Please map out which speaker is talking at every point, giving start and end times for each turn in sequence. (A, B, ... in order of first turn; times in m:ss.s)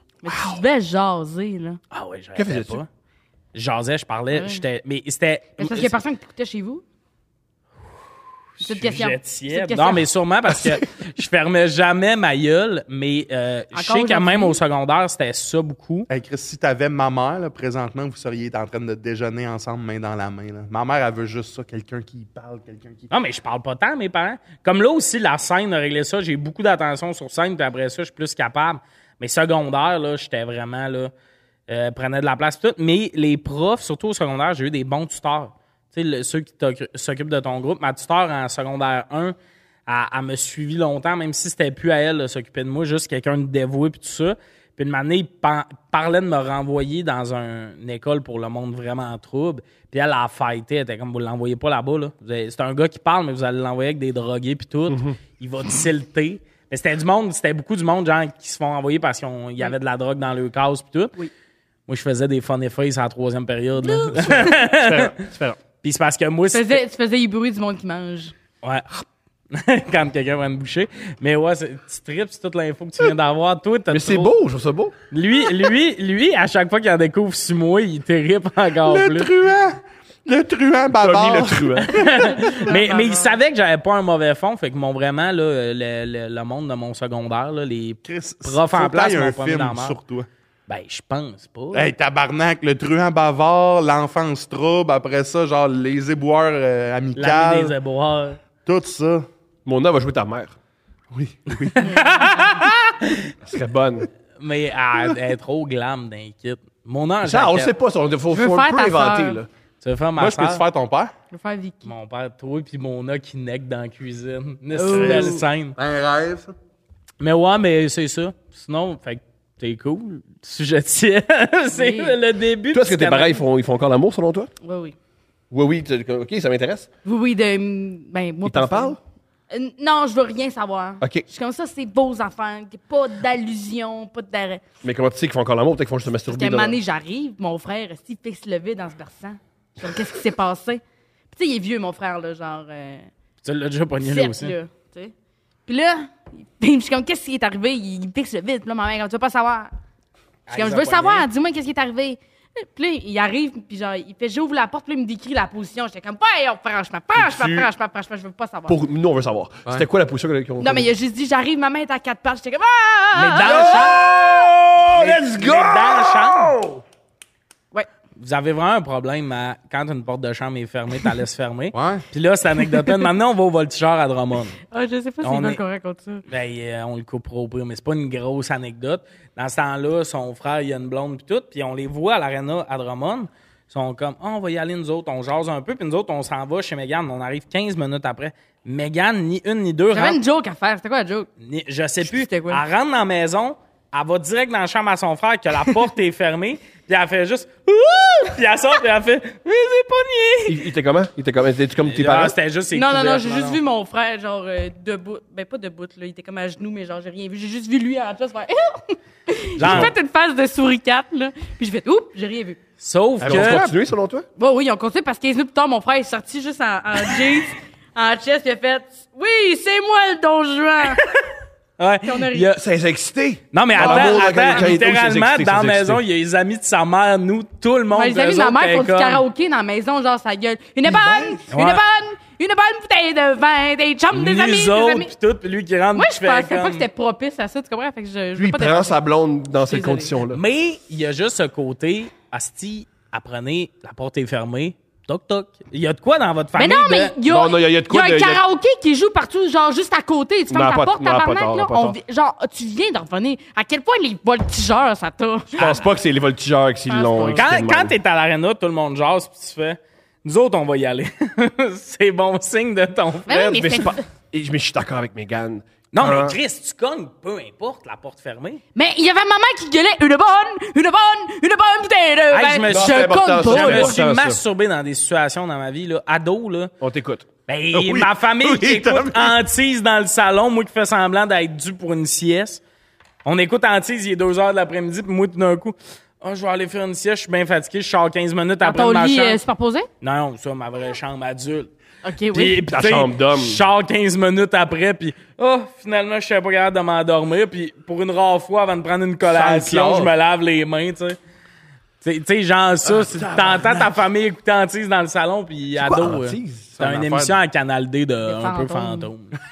0:00.2-0:01.8 A
0:00.3-0:00.6 B
0:01.9-0:02.9 C
0:02.4-0:02.8 B
0:03.5-0:05.9 C
0:04.3-0:04.6 A
0:05.6-0:06.8 A
0:08.6-0:16.1 C
0:08.6-0:10.0 A
0:13.7-0:14.6 A
0:16.1-0:23.1 D
0:23.1-0:31.1 C
0:31.7-0:39.4 C
0:39.9-1:01.2 C
0:54.9-0:55.2 B
1:01.9-1:05.2 C
1:04.0-1:04.4 A
1:04.1-1:05.6 B
1:05.8-1:06.8 C
1:06.5-1:08.3 A
1:08.6-1:08.9 C
1:09.5-1:14.3 C
1:13.9-1:14.9 B
1:15.1-1:19.3 C
1:18.8-1:22.3 D
1:20.9-1:22.1 B
1:21.9-1:30.0 C
1:22.5-1:23.4 A
1:28.1-1:30.3 D
1:30.7-1:31.9 C
1:31.7-1:37.7 D
1:37.2-1:38.4 C
1:38.6-1:39.3 D
1:39.6-1:40.6 B
1:41.1-1:42.0 D
1:41.5-1:43.3 C
1:41.8-1:42.6 A
1:43.4-1:44.1 B
1:44.4-1:47.7 C
1:47.2-1:49.5 B
1:48.3-1:49.4 A
1:49.8-1:50.6 C
1:50.2-1:51.1 D
1:51.3-1:51.9 A
1:51.8-1:55.8 C
1:54.8-1:55.4 A
1:55.8-1:56.5 D
1:57.2-2:03.4 C
2:01.7-2:02.2 A
2:02.7-2:04.5 B
2:04.6-2:05.0 A
2:05.5-2:06.9 B
2:07.0-2:09.0 A
2:08.4-2:09.0 B
2:09.5-2:14.6 A
2:11.0-2:11.3 B
2:14.8-2:16.8 B
2:16.3-2:20.8 A
2:21.3-2:23.1 A
2:23.4-2:24.6 C
2:24.0-2:25.1 A
2:25.7-2:29.7 A
2:30.5-2:31.3 C
2:30.5-2:38.8 A
2:37.1-2:37.7 B
2:38.7-2:40.9 B
2:40.6-2:44.1 A
2:43.1-2:44.0 C
2:43.4-2:46.8 B
2:45.0-2:46.6 C
2:48.2-2:54.6 C
2:51.7-2:52.0 D
2:54.7-2:56.2 A
2:55.2-2:55.6 C
2:56.3-3:10.2 C
3:09.9-3:11.3 A
3:11.4-3:20.5 C
3:12.0-3:12.6 A
3:20.5-3:22.4 B
3:21.8-3:23.6 C
3:22.7-3:32.6 A
3:29.6-3:29.9 C
3:29.6-3:29.9 B
3:32.8-3:33.6 C
3:33.2-3:33.7 D
3:33.2-3:34.3 B
3:34.4-3:41.1 A
3:41.8-3:42.6 C
3:42.0-3:42.5 A
3:42.6-3:46.0 B
3:43.5-3:49.2 C
3:43.8-3:44.7 A
3:47.9-3:55.1 A
3:50.9-3:51.4 B
3:51.5-3:51.8 C
3:54.1-3:56.9 C
3:56.0-3:59.0 A
3:58.4-4:00.4 B
3:59.6-4:00.1 A
4:00.3-4:07.2 C
4:06.6-4:15.8 A
4:07.2-4:08.4 B
4:10.5-4:12.0 B
4:15.5-4:18.0 B
4:16.9-4:17.5 A
4:17.3-4:23.4 C
4:23.3-4:24.0 A
4:23.3-4:26.4 B
4:25.9-4:28.6 C
4:28.8-4:34.0 A
4:32.3-4:36.7 C
4:32.6-4:34.4 B
4:36.8-4:37.2 B
4:37.5-4:42.6 C
4:37.7-4:39.4 D
4:43.2-4:49.4 C
4:48.6-4:49.9 A
4:50.0-4:51.7 C
4:52.0-4:52.6 A
4:52.3-5:01.2 C
4:52.7-4:53.6 B
4:59.3-5:00.1 D
5:02.0-5:09.3 C
5:02.9-5:03.9 D
5:05.8-5:06.7 B
5:06.8-5:07.4 D
5:08.2-5:09.1 A